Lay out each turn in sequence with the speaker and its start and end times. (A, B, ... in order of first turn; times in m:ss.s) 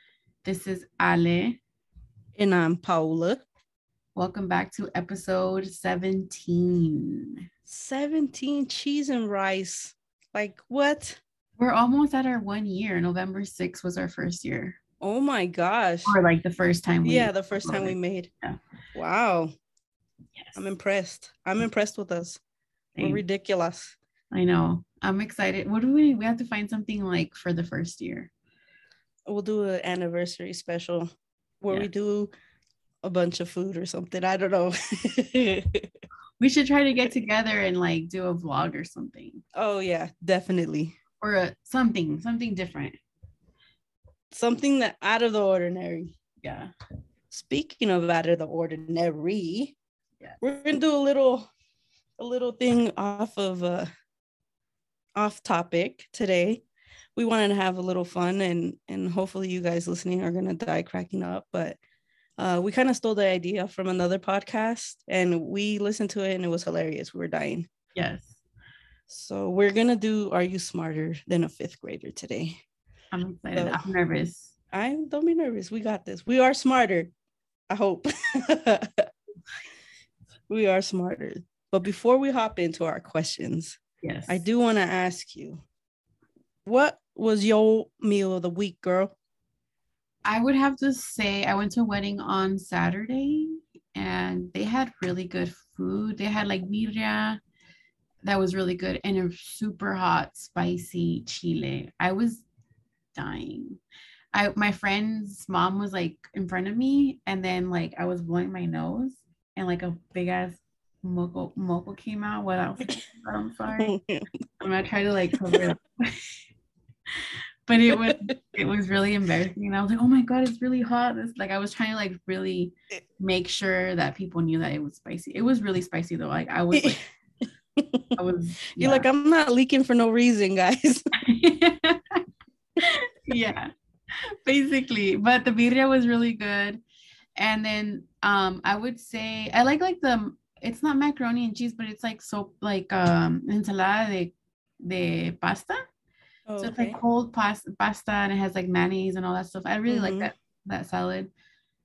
0:00.4-0:01.6 A
0:02.3-0:03.4 B
0:04.1-0:07.4 A
0:07.7-0:11.2 B
0:11.6-0:14.8 A
0:15.0-0:16.1 B
0:16.0-0:18.6 A
0:17.0-0:18.3 B
0:18.9-0:19.5 B
0:20.5-0:22.4 B
0:22.9-0:23.2 A
0:23.0-0:24.0 B
0:24.3-0:28.3 A
0:29.2-0:31.1 B
0:31.6-0:32.3 B
0:33.0-0:35.9 B
0:36.4-0:39.4 A
0:39.5-0:41.0 B
0:41.2-0:43.0 A
0:44.3-0:46.1 B
0:46.4-0:46.7 A
0:47.3-0:49.7 B
0:50.4-0:51.5 B
0:52.2-0:53.9 B
0:55.1-0:56.6 B
0:57.2-1:01.8 B
1:02.4-1:07.7 B
1:07.9-1:08.4 A
1:09.1-1:12.6 B
1:13.1-1:14.5 A
1:13.5-1:13.8 B
1:14.7-1:17.1 B
1:17.7-1:19.1 B
1:20.5-1:25.6 B
1:24.0-1:24.4 A
1:26.6-1:29.1 B
1:30.2-1:37.4 A
1:38.2-1:42.4 A
1:43.1-1:43.8 A
1:44.3-1:54.0 A
1:53.8-1:54.4 B
1:54.6-1:56.3 A
1:57.7-2:07.0 A
1:57.9-1:58.3 B
2:06.7-2:07.0 B
2:07.8-2:08.1 B
2:08.2-2:09.1 A
2:08.8-2:11.0 B
2:11.2-2:12.2 A
2:12.8-2:16.8 A
2:17.4-2:25.9 A
2:26.5-2:27.0 B
2:26.6-2:31.3 A
2:29.9-2:30.3 B